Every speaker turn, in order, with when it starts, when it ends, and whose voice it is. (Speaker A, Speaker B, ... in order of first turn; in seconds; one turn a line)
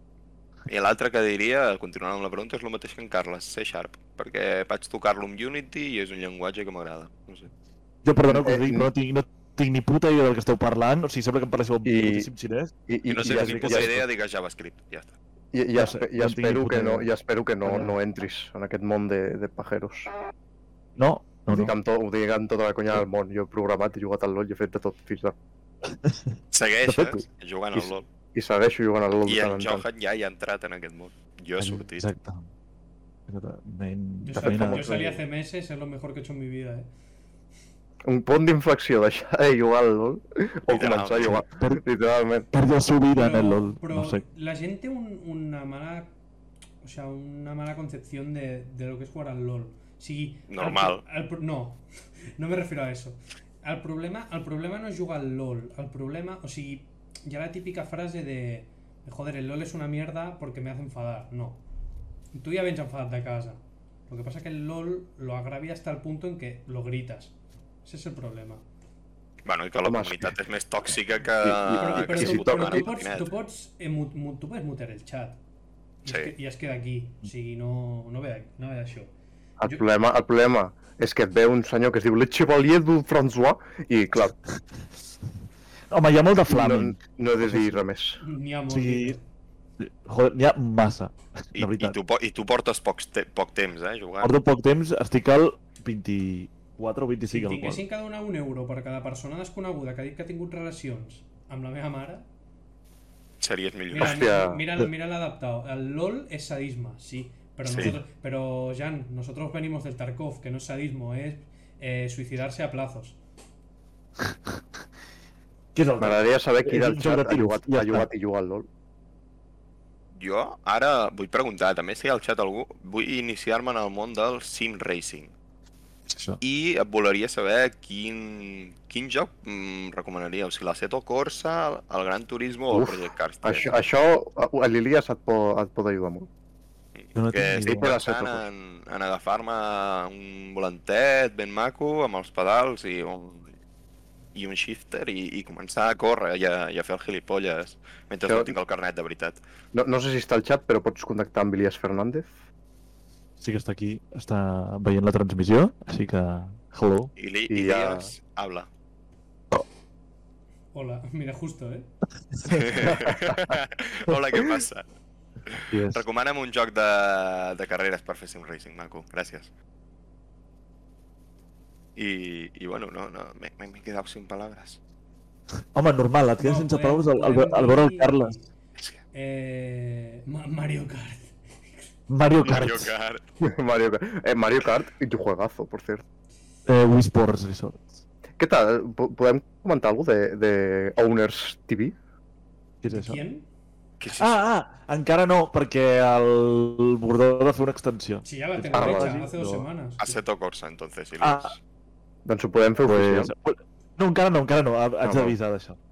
Speaker A: 0.7-7.5
Speaker B: 8.0-14.0
Speaker C: 8.3-8.9
Speaker C: 11.8-12.3
Speaker C: 12.9-13.9
Speaker A: 13.1-15.2
Speaker C: 15.5-20.1
Speaker B: 15.8-17.1
Speaker B: 17.6-17.9
Speaker B: 21.0-21.7
Speaker C: 21.5-25.4
Speaker B: 25.9-27.2
Speaker A: 26.5-28.1
Speaker C: 27.7-29.9
Speaker A: 29.2-32.1
Speaker B: 31.6-32.5
Speaker B: 33.3-35.0
Speaker D: 34.2-36.9
Speaker C: 34.4-35.2
Speaker C: 38.1-42.5
Speaker A: 40.7-41.4
Speaker B: 41.2-41.8
Speaker B: 42.5-44.2
Speaker D: 43.1-46.1
Speaker D: 46.8-61.6
Speaker A: 50.5-51.0
Speaker D: 62.3-68.6
Speaker A: 69.5-73.3
Speaker C: 69.8-70.3
Speaker C: 71.4-72.9
Speaker D: 71.8-75.4
Speaker D: 76.0-79.1
Speaker A: 76.1-76.3
Speaker C: 79.6-84.3
Speaker B: 85.9-87.8
Speaker C: 86.5-88.2
Speaker D: 88.2-89.2
Speaker B: 88.7-89.2
Speaker B: 89.8-92.0
Speaker A: 91.5-94.3
Speaker B: 94.2-97.8
Speaker D: 97.3-102.3
Speaker A: 103.4-104.2
Speaker D: 103.9-113.2
Speaker C: 104.0-104.6
Speaker A: 107.7-107.9
Speaker B: 115.8-118.1
Speaker C: 116.0-118.7
Speaker A: 120.2-125.3
Speaker B: 126.1-126.4
Speaker A: 126.4-133.7
Speaker C: 132.7-136.3
Speaker A: 137.0-143.5
Speaker B: 137.2-137.9
Speaker C: 137.7-138.4
Speaker A: 144.3-149.4
Speaker C: 148.3-148.6
Speaker C: 149.7-152.3
Speaker B: 153.4-157.1
Speaker A: 157.2-158.7
Speaker C: 157.5-158.1
Speaker D: 160.7-161.9
Speaker B: 162.3-162.9
Speaker A: 162.5-164.8
Speaker C: 162.9-163.2
Speaker A: 165.5-169.5
Speaker B: 165.7-166.0
Speaker A: 172.0-174.8
Speaker B: 175.7-178.3
Speaker D: 176.4-178.5
Speaker D: 179.1-181.9
Speaker B: 182.1-182.9
Speaker A: 182.4-183.3
Speaker C: 183.4-186.0
Speaker B: 186.7-188.0
Speaker C: 188.4-191.9
Speaker B: 192.8-193.2
Speaker D: 192.9-193.4
Speaker A: 194.0-194.4
Speaker B: 194.2-199.3
Speaker D: 198.2-200.2
Speaker C: 198.7-199.6
Speaker A: 200.0-201.6
Speaker B: 201.2-201.6
Speaker C: 202.2-203.3
Speaker B: 202.9-205.8
Speaker C: 205.0-205.4